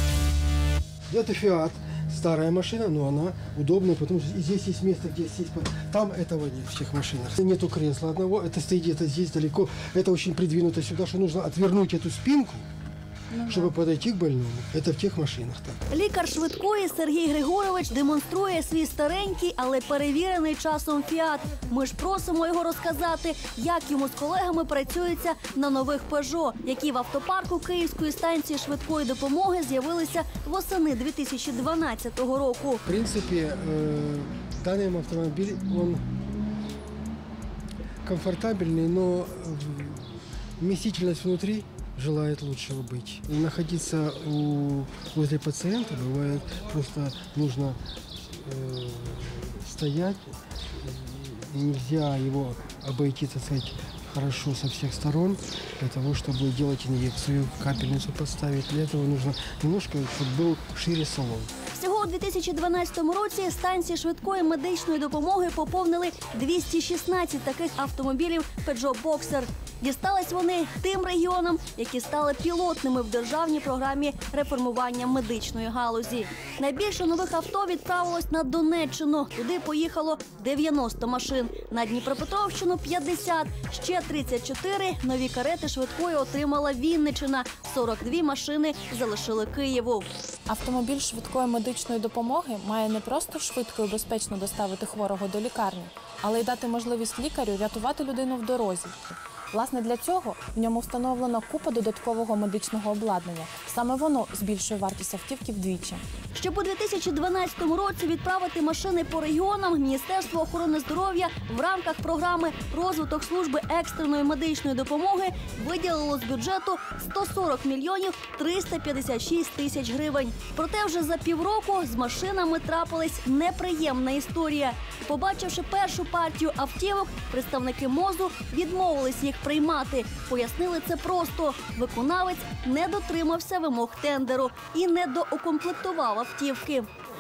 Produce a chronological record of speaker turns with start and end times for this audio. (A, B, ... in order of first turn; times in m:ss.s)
0:01.1-0:12.6 A
0:13.4-0:15.8 A
0:15.9-0:32.8 B
0:32.8-0:36.0 A
0:38.0-0:47.8 A
0:48.4-0:50.2 A
0:50.8-1:01.5 A
1:01.7-1:30.1 B
1:30.5-1:46.0 C
1:46.3-2:16.9 B